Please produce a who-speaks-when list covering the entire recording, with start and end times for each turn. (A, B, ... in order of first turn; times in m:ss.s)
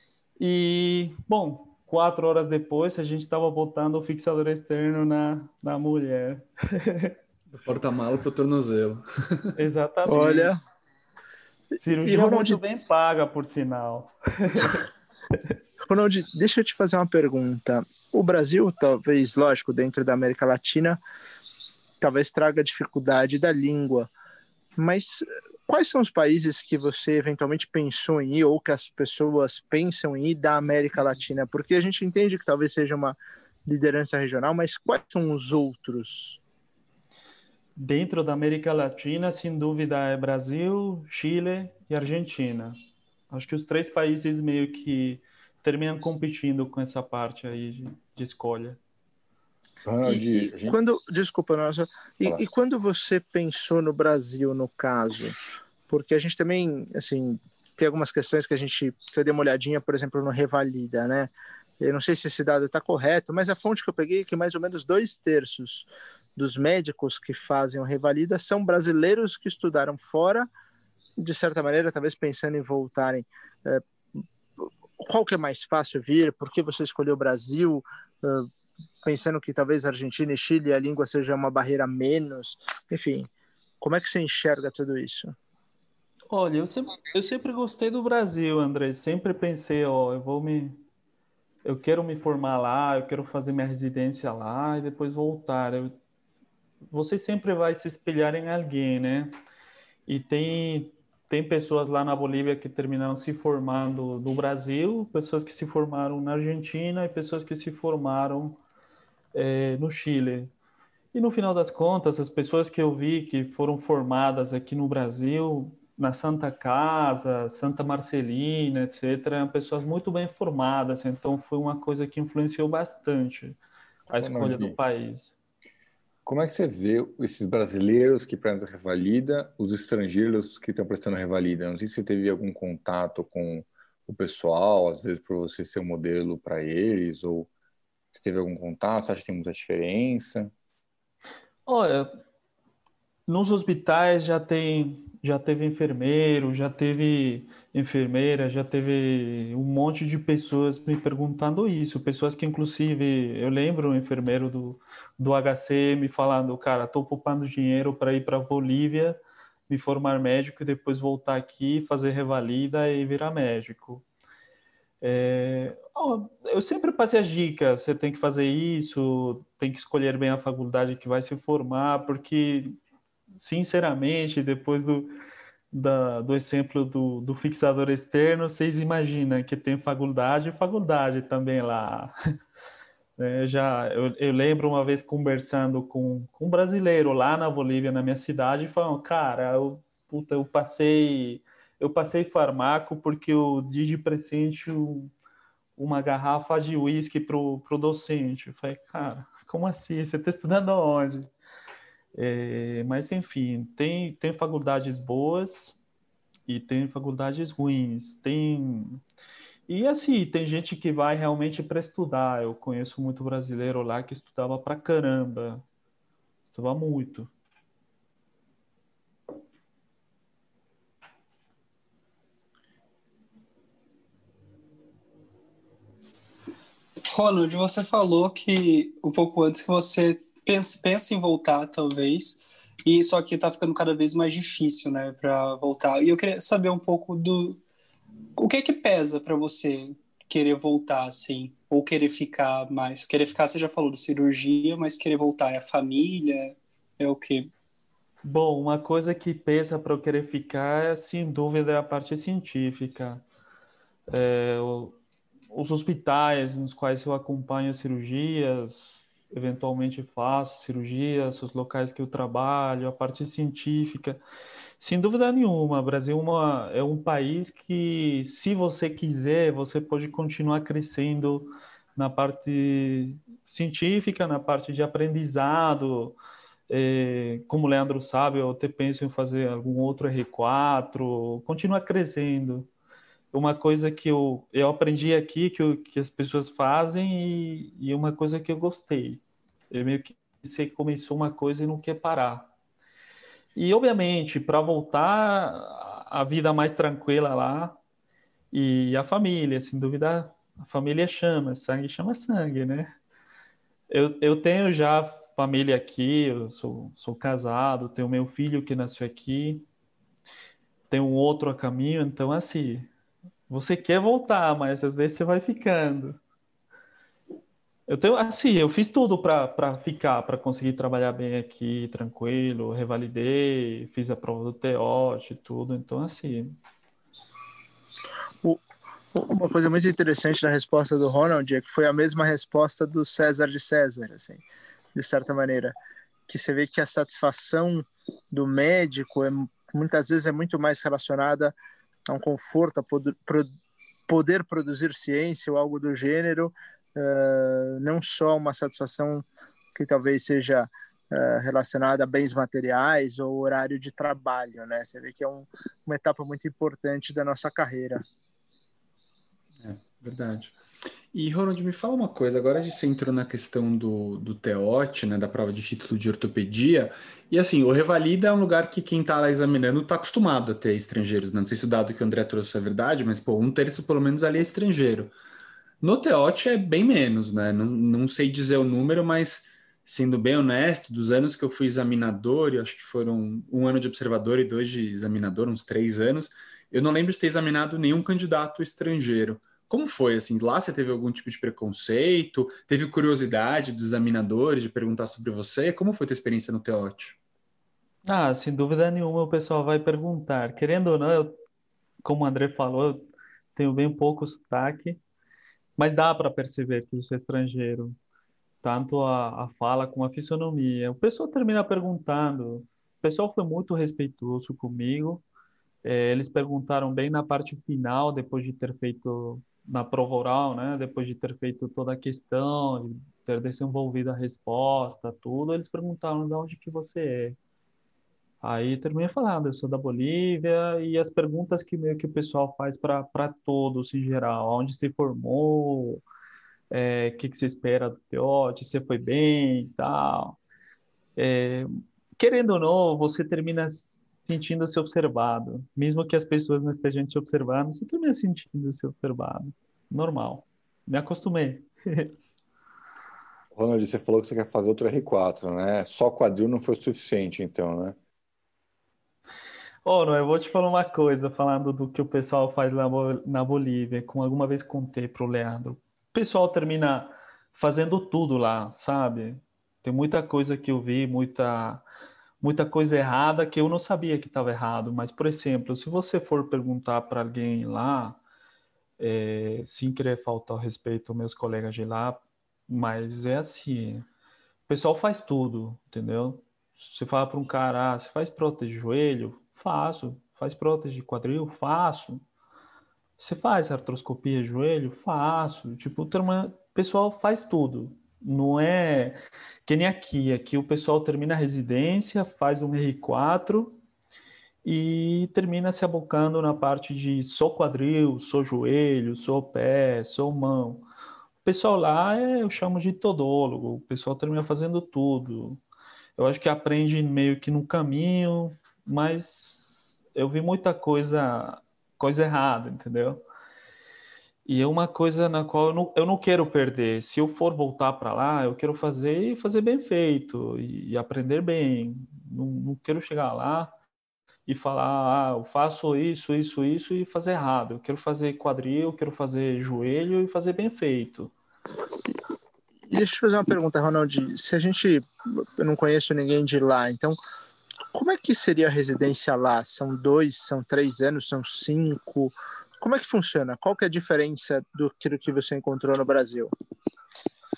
0:00.4-0:07.1 A
0:07.5-0:09.6 B
0:09.6-0:10.5 A
0:10.0-0:10.6 C
0:11.7-0:14.8 A
0:11.8-0:12.6 C
0:15.9-0:21.0 C
0:22.0-0:24.1 C
0:24.8-0:36.4 C
0:37.8-0:42.8 A
0:43.3-0:48.8 A
0:49.8-0:50.8 D
0:50.0-0:55.4 C
0:55.9-1:10.5 C
1:11.2-1:13.8 C
1:14.6-1:18.5 C
1:19.0-1:23.3 C
1:23.8-1:25.3 C
1:26.3-1:30.8 A
1:31.6-1:35.9 A
1:36.9-1:39.3 A
1:40.1-1:48.6 A
1:49.3-1:50.5 A
1:51.1-2:03.6 A
2:04.1-2:05.3 A
2:04.1-2:04.8 D
2:06.2-2:17.5 D
2:18.1-2:20.5 D
2:21.7-2:22.1 A
2:23.3-2:44.0 A
2:45.0-2:52.8 A
2:53.4-2:55.1 A
2:55.7-3:02.1 A
3:03.2-3:15.1 A
3:15.8-3:21.3 A
3:22.1-3:25.8 A
3:26.5-3:29.0 A
3:29.7-3:35.6 A
3:36.5-3:37.3 A
3:47.1-3:57.6 E
3:58.4-4:07.5 E
4:08.2-4:13.2 A
4:14.1-4:15.0 A
4:15.5-4:24.2 A
4:24.8-4:36.2 A
4:36.7-4:42.7 A
4:43.3-4:52.5 A
4:53.5-4:57.8 A
4:58.5-5:02.9 A
5:03.9-5:09.6 A
5:10.9-5:12.9 A
5:13.5-5:16.2 A
5:17.9-5:26.5 A
5:29.1-5:34.4 C
5:34.9-5:35.7 C
5:36.3-5:41.5 C
5:42.1-5:43.5 C
5:44.1-5:58.0 C
5:59.6-6:00.5 B
6:01.1-6:15.1 B
6:15.8-6:37.2 B
6:38.0-6:41.3 A
6:42.0-6:45.0 A
6:45.8-6:47.9 A
6:48.6-6:55.2 A
6:55.8-7:07.4 A
7:08.4-7:16.0 A
7:16.7-7:20.4 A
7:21.2-7:32.1 A
7:33.5-7:38.0 D
7:39.8-7:51.8 A
7:52.4-7:58.2 A
7:59.0-8:04.0 A
8:04.7-8:12.2 A
8:13.2-8:23.8 A
8:24.6-8:30.8 A
8:31.4-8:35.6 A
8:36.2-8:43.2 A
8:44.4-8:53.7 A
8:54.4-9:01.3 A
9:02.9-9:07.2 C
9:07.9-9:16.5 C